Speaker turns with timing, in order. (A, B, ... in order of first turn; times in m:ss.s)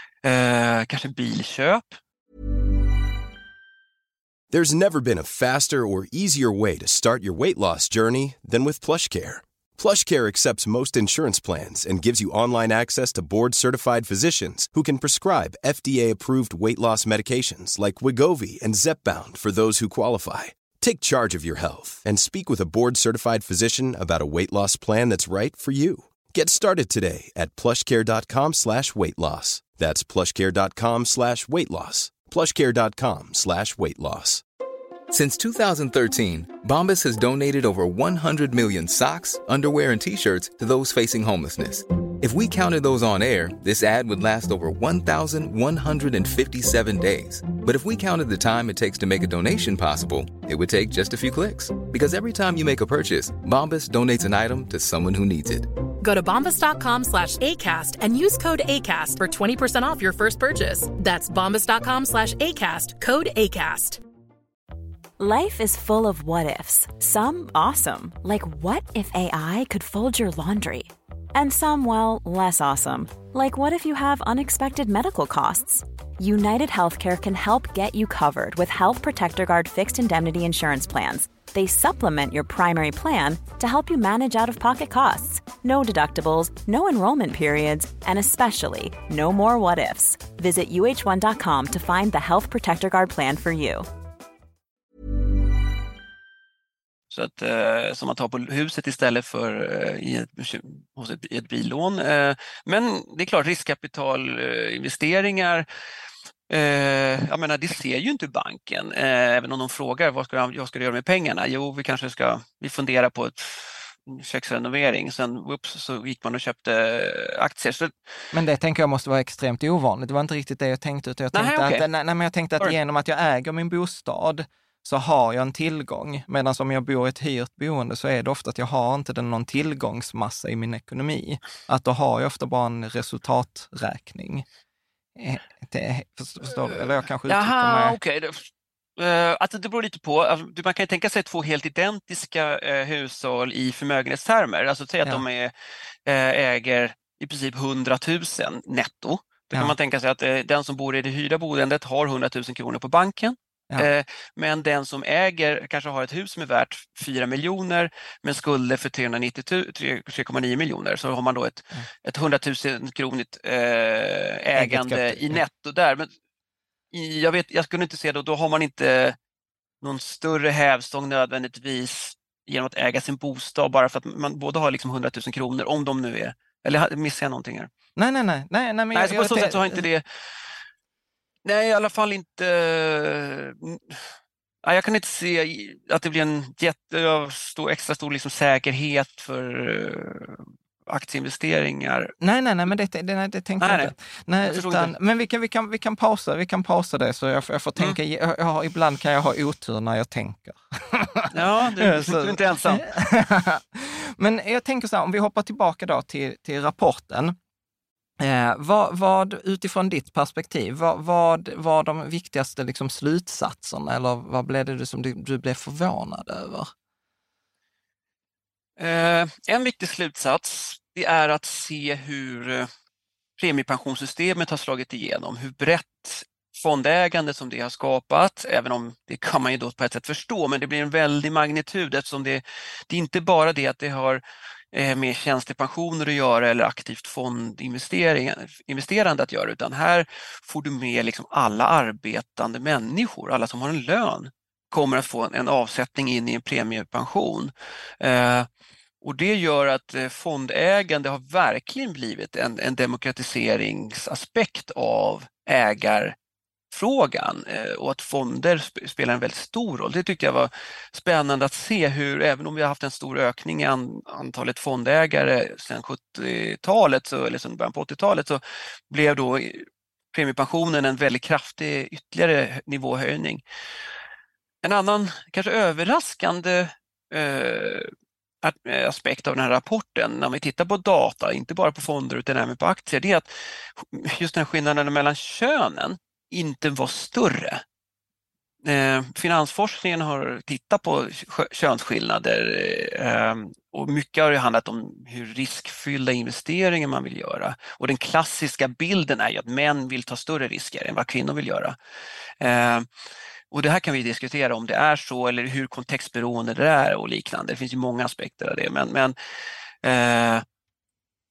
0:00.2-0:02.0 A
0:04.5-0:34.4 B
0:35.1-0:55.7 C
0:56.0-1:04.0 D
1:05.2-1:33.9 E
1:37.1-1:45.7 A
1:46.5-1:57.9 A
1:58.3-2:14.5 F
2:01.3-2:01.9 A
2:15.2-2:18.0 F
2:17.3-2:25.5 A
2:26.1-2:46.1 A
2:44.6-2:45.4 F
2:46.9-2:49.2 A
2:49.8-2:57.7 A
2:58.0-2:59.8 F
2:58.9-3:00.0 A
3:01.4-3:04.0 A
3:04.6-3:12.1 A
3:12.2-3:27.4 F
3:13.6-3:14.9 A
3:21.3-3:22.8 A
3:28.2-3:36.7 F
3:38.8-3:42.7 A
3:43.4-3:54.2 A
3:54.7-4:08.5 A
4:09.0-4:16.1 A
4:16.7-4:33.4 A
4:34.6-4:37.9 A
4:38.4-4:47.6 A
4:48.6-5:01.8 A
5:02.4-5:02.9 A
5:03.5-5:09.1 A
5:09.8-5:10.4 A